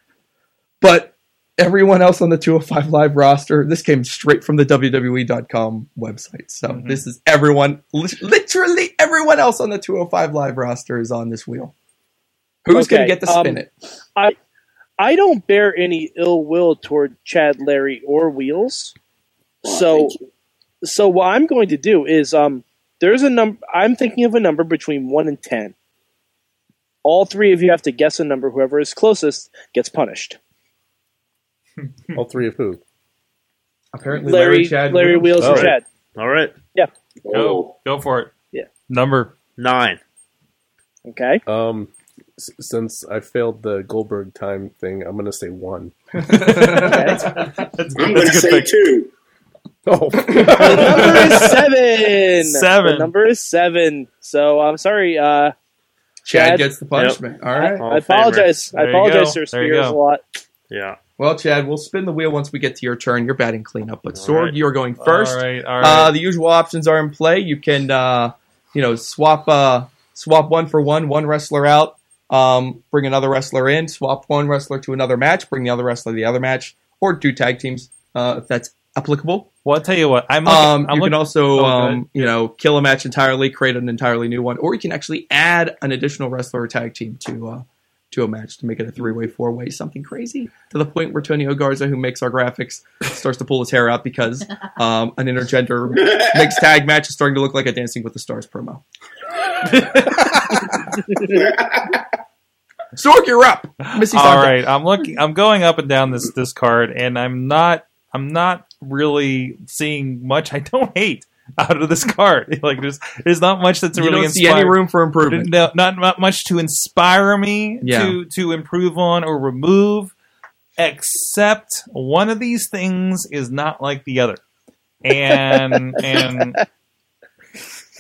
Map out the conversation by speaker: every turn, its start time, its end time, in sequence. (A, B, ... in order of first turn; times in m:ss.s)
0:00.8-0:11.7 A
0:06.7-0:07.0 B
0:12.6-0:13.7 A
0:12.7-0:13.6 C
0:15.0-0:19.0 C
0:19.6-0:20.1 C
0:19.6-0:20.2 D
0:20.8-0:25.7 C
0:27.0-0:30.4 C
0:31.8-0:32.2 B
0:32.1-0:32.8 E
0:33.9-0:35.7 A
0:34.3-0:35.8 C
0:35.4-0:35.8 E
0:36.1-0:36.5 F
0:37.2-0:37.7 D
0:37.3-0:38.3 B
0:38.9-0:39.3 B
0:39.6-0:40.0 F
0:41.0-0:41.4 C
0:41.5-0:45.9 E
0:46.3-0:47.4 A
0:46.5-0:48.7 B
0:46.8-0:47.3 C
0:48.0-0:49.1 D
0:49.9-0:51.5 E
0:50.6-0:55.5 C
0:50.8-0:51.6 B
0:52.2-0:53.1 B
0:56.2-0:57.8 A
0:56.3-0:56.7 C
0:56.9-0:57.2 F
0:57.5-1:00.2 C
0:57.8-0:58.6 F
0:58.7-1:00.0 B
1:00.7-1:01.0 F
1:01.2-1:19.5 A
1:04.1-1:04.6 F
1:05.0-1:06.1 B
1:19.6-1:22.3 B
1:20.4-1:38.8 A
1:36.0-1:36.6 D
1:39.7-1:40.3 B
1:41.3-1:42.0 D
1:43.0-1:44.6 A
1:43.9-2:00.1 B
1:53.9-1:55.5 A
1:57.8-1:58.2 A
2:00.8-2:04.4 B
2:05.0-2:06.6 B
2:05.5-2:06.6 C